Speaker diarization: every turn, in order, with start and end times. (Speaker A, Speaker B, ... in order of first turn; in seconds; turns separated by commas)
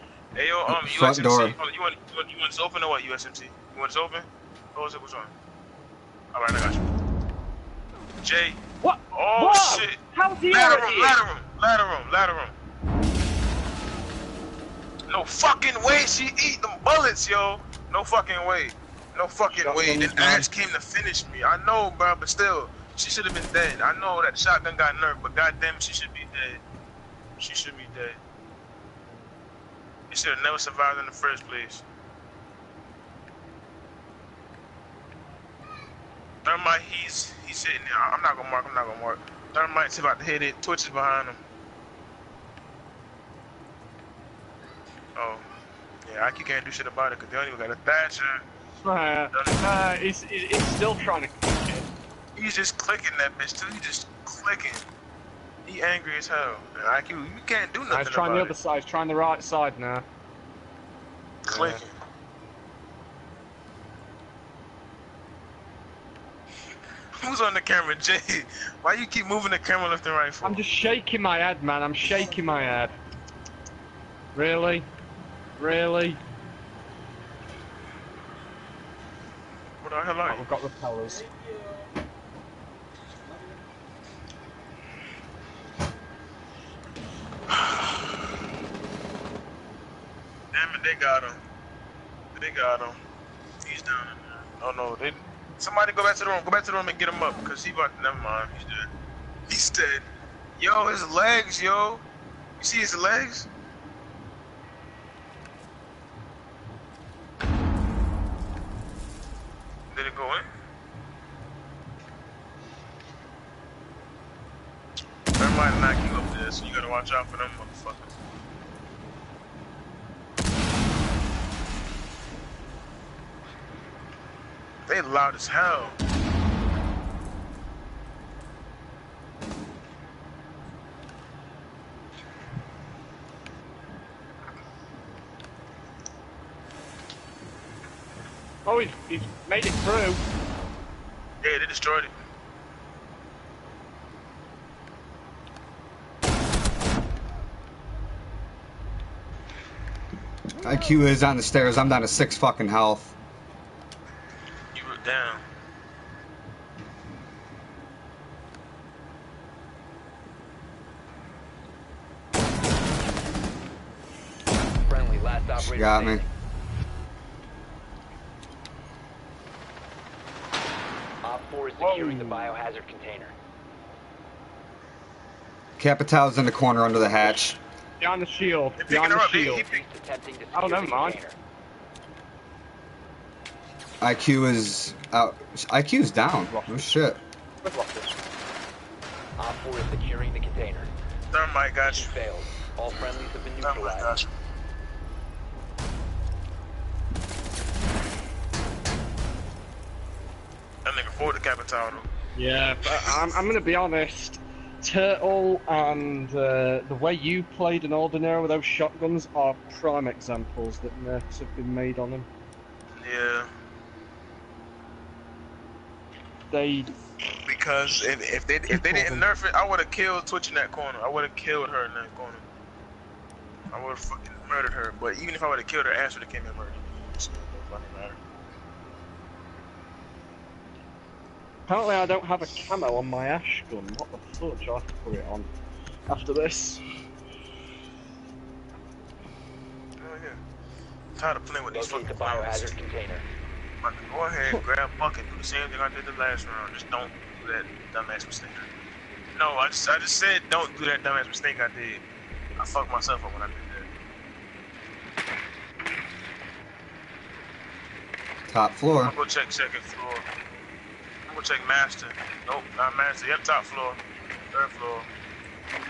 Speaker A: 0.3-5.3, Speaker B: 0.7-1.6, Speaker A: 6.3-6.8, Speaker A: 8.2-8.6, Speaker C: 8.8-11.2, Speaker A: 9.1-12.5, Speaker A: 15.1-26.6, Speaker C: 19.5-20.5, Speaker A: 27.4-28.2, Speaker A: 30.1-31.8, Speaker A: 36.4-41.4, Speaker A: 45.1-45.4, Speaker A: 46.0-48.4, Speaker C: 48.8-51.9, Speaker A: 49.3-49.6, Speaker A: 52.4-54.8, Speaker A: 55.6-58.5, Speaker C: 57.9-60.0, Speaker A: 61.4-61.9, Speaker C: 61.5-61.8, Speaker A: 67.2-70.6, Speaker C: 70.4-72.9, Speaker C: 74.3-74.9, Speaker C: 75.6-76.2, Speaker A: 79.8-80.4, Speaker C: 80.3-81.2, Speaker A: 87.5-88.2, Speaker A: 90.5-91.4, Speaker A: 92.3-93.0, Speaker A: 93.6-98.9, Speaker A: 99.5-100.0, Speaker A: 100.6-102.0, Speaker A: 102.6-103.5, Speaker A: 109.9-110.5, Speaker A: 115.4-118.1, Speaker A: 124.9-126.0, Speaker C: 138.7-140.2, Speaker A: 141.4-142.1, Speaker B: 150.6-153.1, Speaker A: 154.7-155.4, Speaker D: 164.9-166.3, Speaker B: 165.6-166.2, Speaker D: 171.2-173.3, Speaker C: 171.8-172.5, Speaker B: 175.8-177.6, Speaker C: 178.0-179.6, Speaker A: 178.8-179.8, Speaker D: 179.5-181.4, Speaker C: 180.5-181.2, Speaker B: 184.0-187.2, Speaker C: 186.5-187.1, Speaker C: 187.6-188.2, Speaker D: 189.4-190.9, Speaker A: 191.3-192.1, Speaker D: 191.8-194.2, Speaker A: 193.6-194.3, Speaker A: 200.8-202.1, Speaker C: 202.3-212.3, Speaker A: 202.9-203.2, Speaker A: 213.0-213.5, Speaker C: 216.5-217.4, Speaker A: 217.4-222.4, Speaker C: 218.7-219.2, Speaker A: 223.7-228.2, Speaker C: 231.7-235.5, Speaker C: 236.1-236.8, Speaker A: 240.0-240.4, Speaker A: 241.2-242.7, Speaker D: 241.7-243.3, Speaker A: 243.8-248.7, Speaker A: 249.3-252.0, Speaker A: 252.6-253.9, Speaker B: 258.5-259.1, Speaker A: 259.0-260.3, Speaker A: 261.3-264.0, Speaker A: 264.5-265.1